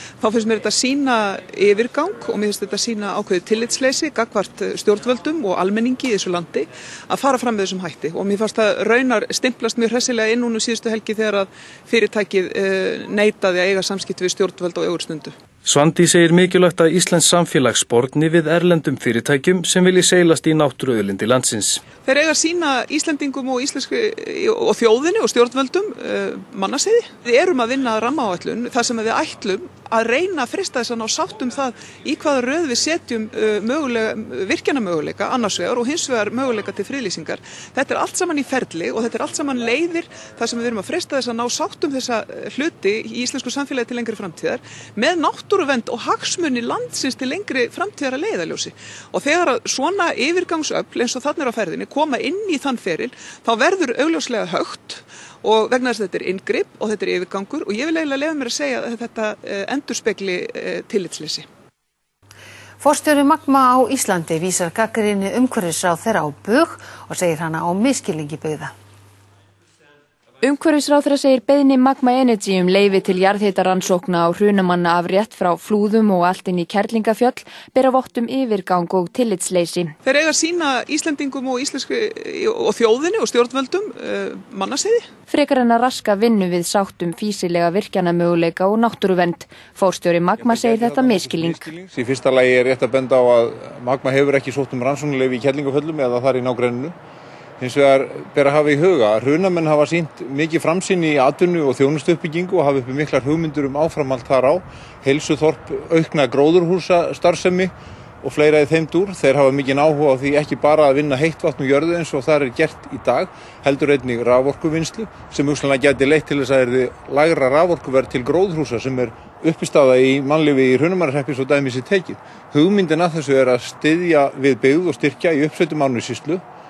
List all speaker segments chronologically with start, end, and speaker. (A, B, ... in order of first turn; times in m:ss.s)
0:00.2-0:15.4 A
0:15.6-0:21.9 B
0:22.0-1:01.5 A
1:02.8-1:08.7 C
1:10.4-1:20.0 D
1:20.0-1:25.1 A
1:25.3-1:31.6 D
1:30.4-1:37.0 E
1:37.6-2:06.4 E